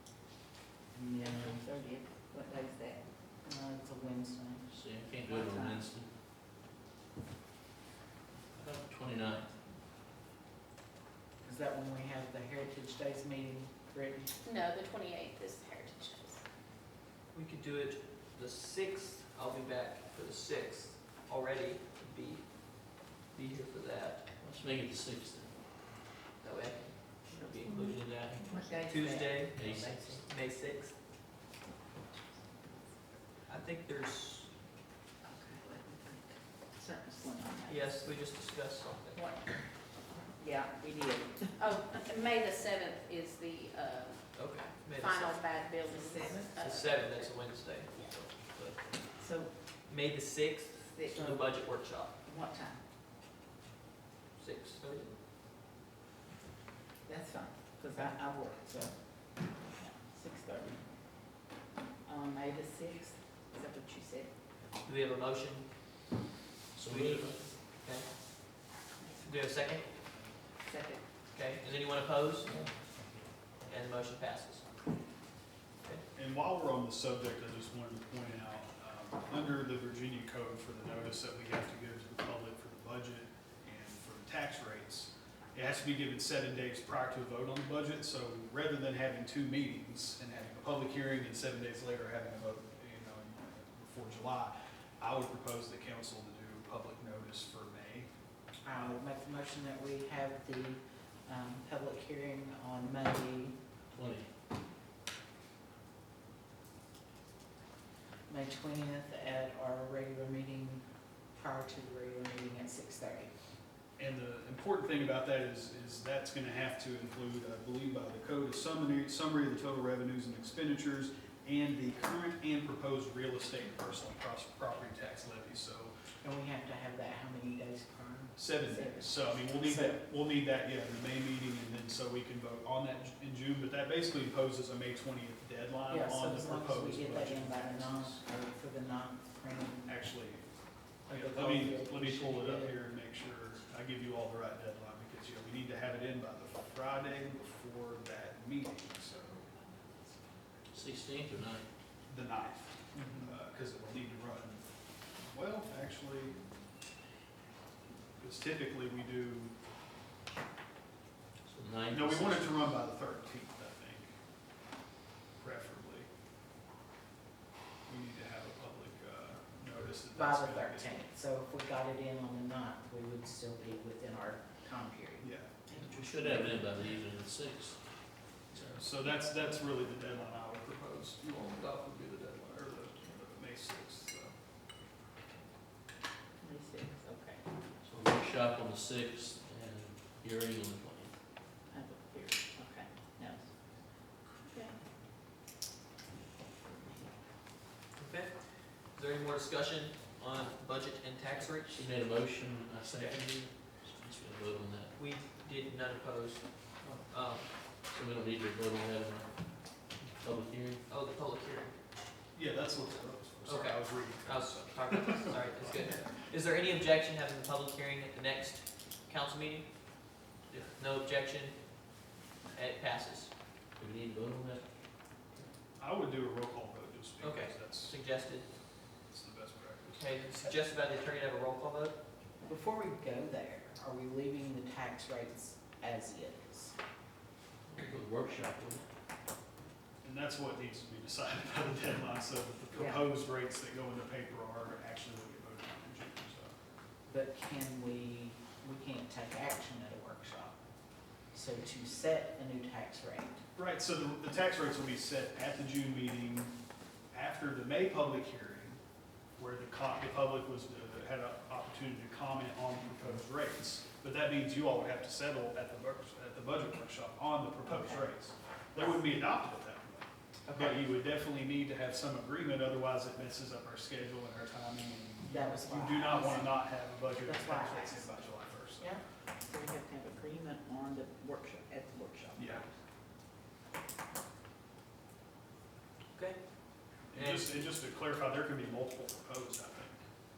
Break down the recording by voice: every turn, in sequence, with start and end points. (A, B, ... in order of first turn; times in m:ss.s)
0:00.9-0:01.6 A
0:01.2-0:03.0 B
0:03.4-0:04.7 A
0:04.7-0:06.1 C
0:05.3-0:05.8 A
0:08.5-0:09.5 C
0:11.4-0:14.4 A
0:14.4-0:16.4 D
0:17.3-0:24.3 E
0:24.4-0:25.6 C
0:26.4-0:30.9 E
0:27.6-0:28.9 D
0:28.3-0:30.0 B
0:29.5-0:30.2 C
0:32.1-0:32.8 B
0:33.5-0:34.5 E
0:35.2-0:38.1 B
0:37.6-0:39.2 E
0:39.1-0:39.7 B
0:40.4-0:41.5 B
0:41.6-0:47.3 D
0:44.3-0:45.6 E
0:45.8-0:46.6 B
0:46.6-0:49.2 E
0:49.1-0:49.6 B
0:49.8-0:52.1 E
0:50.9-0:52.8 B
0:54.4-0:55.2 E
0:57.0-1:00.9 B
1:02.0-1:04.4 B
1:04.8-1:06.2 E
1:06.7-1:07.5 C
1:06.9-1:08.5 E
1:09.0-1:09.3 B
1:09.2-1:09.9 E
1:10.6-1:11.1 B
1:11.3-1:12.6 E
1:12.6-1:13.0 C
1:13.6-1:14.7 E
1:16.1-1:38.1 F
1:38.6-1:43.6 A
1:43.9-1:44.3 C
1:48.3-1:53.3 A
1:54.0-2:05.9 F
2:06.2-2:10.0 A
2:08.4-2:18.2 F
2:15.9-2:19.9 A
2:19.8-2:20.5 F
2:21.0-2:29.4 F
2:21.1-2:22.8 A
2:30.7-2:31.7 C
2:32.0-2:36.4 F
2:33.0-2:33.3 A
2:38.2-2:39.5 F
2:41.4-2:42.6 C
2:41.9-2:44.1 F
2:45.4-2:46.1 F
2:47.9-2:51.0 F
2:50.1-2:56.3 A
2:55.2-2:55.6 F
2:55.7-2:58.8 C
2:58.7-3:04.6 F
3:06.4-3:07.5 B
3:07.8-3:11.2 C
3:11.7-3:14.8 B
3:16.6-3:17.1 B
3:18.0-3:21.8 E
3:21.7-3:24.9 C
3:22.9-3:23.2 E
3:25.0-3:27.7 E
3:27.7-3:30.8 C
3:30.9-3:31.8 E
3:32.3-3:36.1 F
3:33.4-3:43.3 E
3:43.8-3:44.6 C
3:45.8-3:48.0 F
3:47.2-3:48.5 E
3:49.0-3:50.5 F
3:49.9-3:52.0 E
3:52.4-3:56.8 A
3:57.7-3:58.9 C
4:00.0-4:06.5 F
4:02.7-4:03.0 B
4:07.1-4:10.6 A
4:11.3-4:13.4 A
4:13.6-4:16.5 F
4:17.1-4:18.8 F
4:19.4-4:39.0 F
4:27.6-4:28.1 A
4:30.5-4:30.8 A
4:35.2-4:39.0 A
4:39.4-4:42.7 B
4:42.4-4:42.6 F
4:46.2-4:47.6 E
4:47.1-4:50.0 F